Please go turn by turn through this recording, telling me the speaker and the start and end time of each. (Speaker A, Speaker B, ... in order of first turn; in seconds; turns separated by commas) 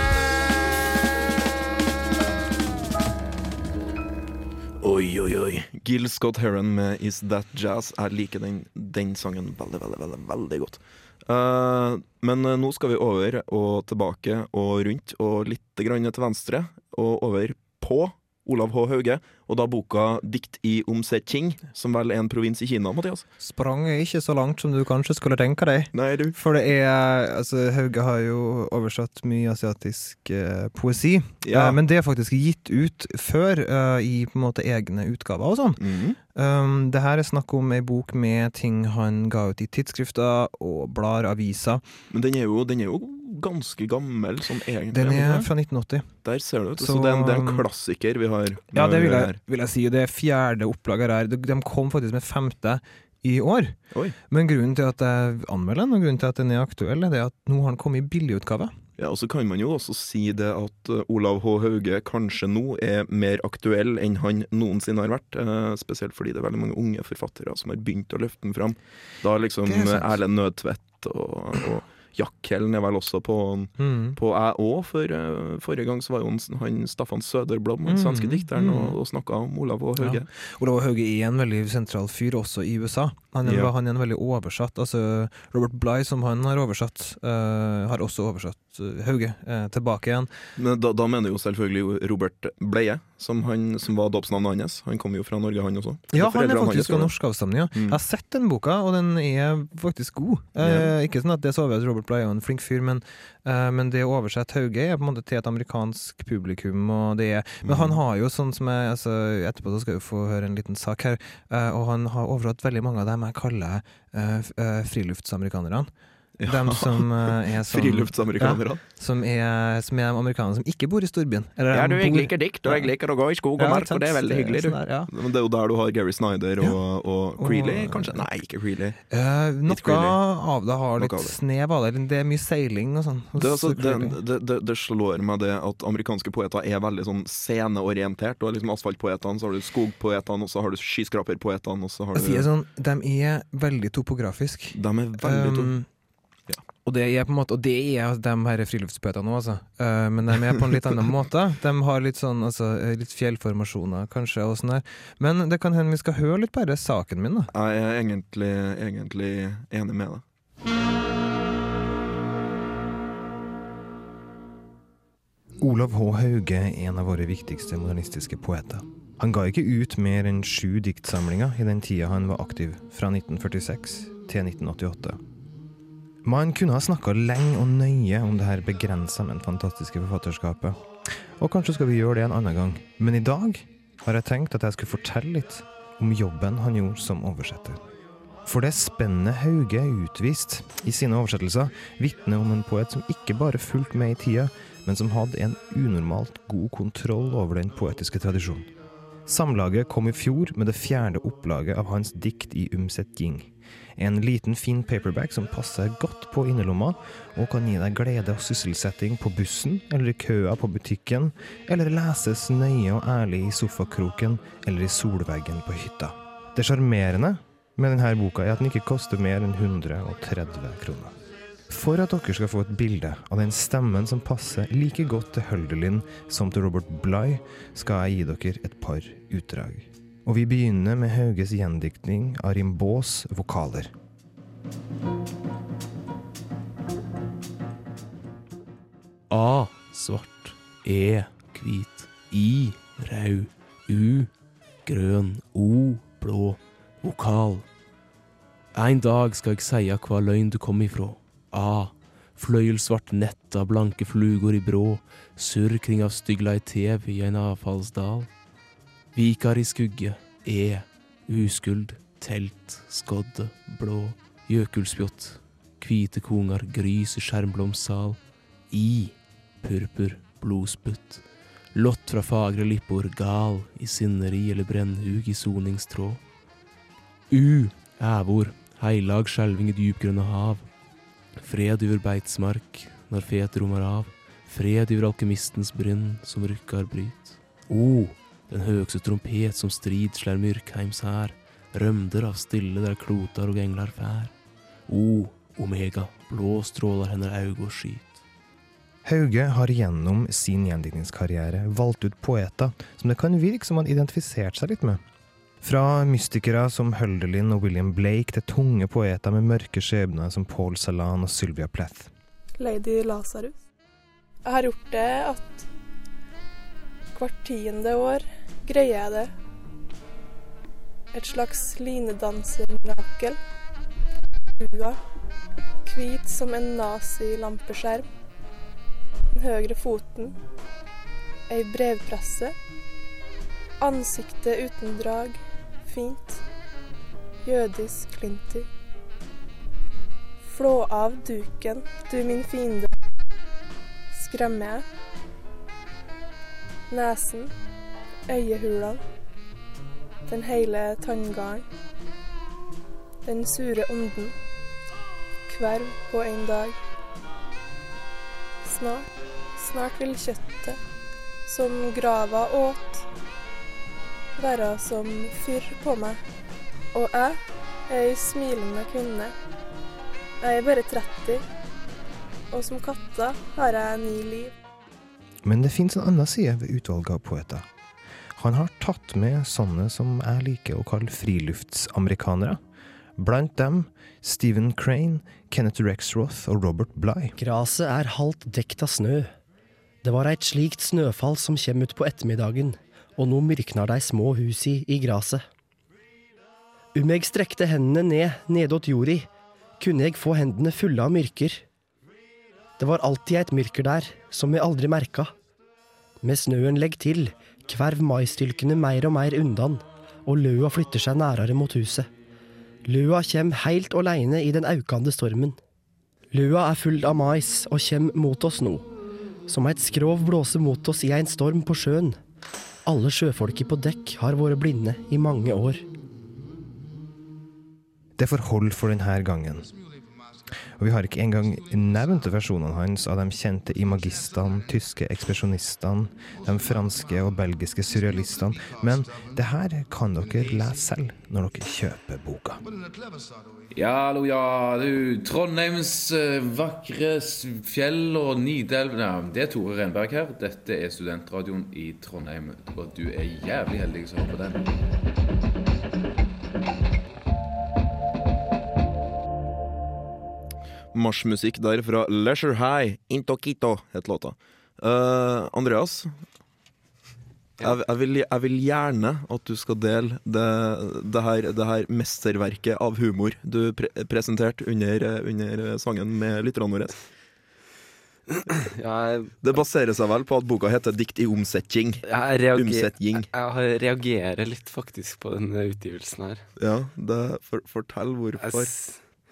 Speaker A: 4.8-23.2, Speaker B: 23.4-35.8, Speaker A: 25.9-26.3, Speaker A: 31.4-31.8, Speaker A: 35.8-36.2, Speaker B: 36.3-41.8, Speaker A: 42.1-45.5, Speaker B: 44.9-46.1, Speaker A: 46.2-49.4, Speaker B: 46.8-47.6, Speaker B: 48.7-53.8, Speaker A: 53.9-54.1, Speaker B: 54.3-58.7, Speaker A: 59.0-80.3, Speaker B: 69.7-70.1, Speaker B: 73.8-74.2, Speaker B: 77.8-79.0, Speaker B: 80.0-90.3, Speaker A: 83.4-83.7, Speaker A: 90.5-97.1, Speaker B: 96.1-115.9, Speaker A: 97.7-98.0, Speaker A: 100.6-100.9, Speaker A: 107.6-108.0, Speaker A: 116.4-118.8, Speaker B: 116.5-122.9, Speaker A: 121.7-129.0, Speaker B: 123.6-125.1, Speaker B: 127.4-128.2, Speaker B: 129.1-134.2, Speaker A: 129.7-130.2, Speaker A: 131.0-131.3, Speaker A: 133.4-142.5, Speaker B: 142.1-145.9, Speaker A: 144.7-145.7, Speaker B: 146.8-157.5, Speaker A: 157.5-160.2, Speaker B: 165.6-175.2, Speaker B: 176.2-187.8, Speaker B: 188.4-198.7, Speaker B: 199.2-221.2, Speaker B: 221.7-233.9, Speaker C: 239.3-244.3, Speaker C: 244.8-247.7, Speaker C: 248.7-258.4, Speaker C: 259.1-276.2, Speaker C: 277.3-294.3, Speaker C: 294.9-298.2, Speaker B: 299.0-305.0, Speaker B: 305.6-312.1, Speaker D: 312.6-313.6, Speaker D: 314.4-315.6, Speaker D: 317.1-319.3, Speaker D: 321.1-323.4, Speaker D: 324.6-325.0, Speaker D: 325.8-328.1, Speaker D: 329.3-330.4, Speaker D: 331.5-332.5, Speaker D: 333.8-336.4, Speaker D: 337.4-338.7, Speaker D: 340.4-342.9, Speaker D: 344.1-344.9, Speaker D: 346.9-347.5, Speaker D: 348.3-349.0, Speaker D: 350.3-351.6, Speaker D: 353.2-354.4, Speaker D: 355.5-356.8, Speaker D: 358.6-360.8, Speaker D: 361.4-363.0, Speaker D: 364.4-366.2, Speaker D: 366.9-367.4, Speaker D: 367.9-369.3, Speaker D: 370.4-371.4, Speaker D: 372.5-374.5, Speaker B: 375.4-377.6, Speaker B: 378.4-382.6, Speaker B: 383.2-387.3, Speaker E: 387.4-389.3, Speaker E: 390.0-395.4, Speaker E: 396.9-399.3, Speaker E: 399.8-401.6, Speaker E: 402.8-405.3, Speaker E: 406.2-412.1, Speaker E: 412.9-415.6, Speaker E: 416.3-418.9, Speaker E: 419.5-422.2, Speaker E: 422.9-425.8, Speaker B: 428.2-429.7, Speaker B: 430.8-442.6, Speaker F: 443.7-454.7, Speaker A: 460.9-466.1, Speaker A: 467.6-476.9, Speaker G: 478.4-479.3, Speaker A: 479.4-483.3, Speaker G: 482.0-486.4, Speaker A: 486.6-488.8, Speaker G: 488.4-489.0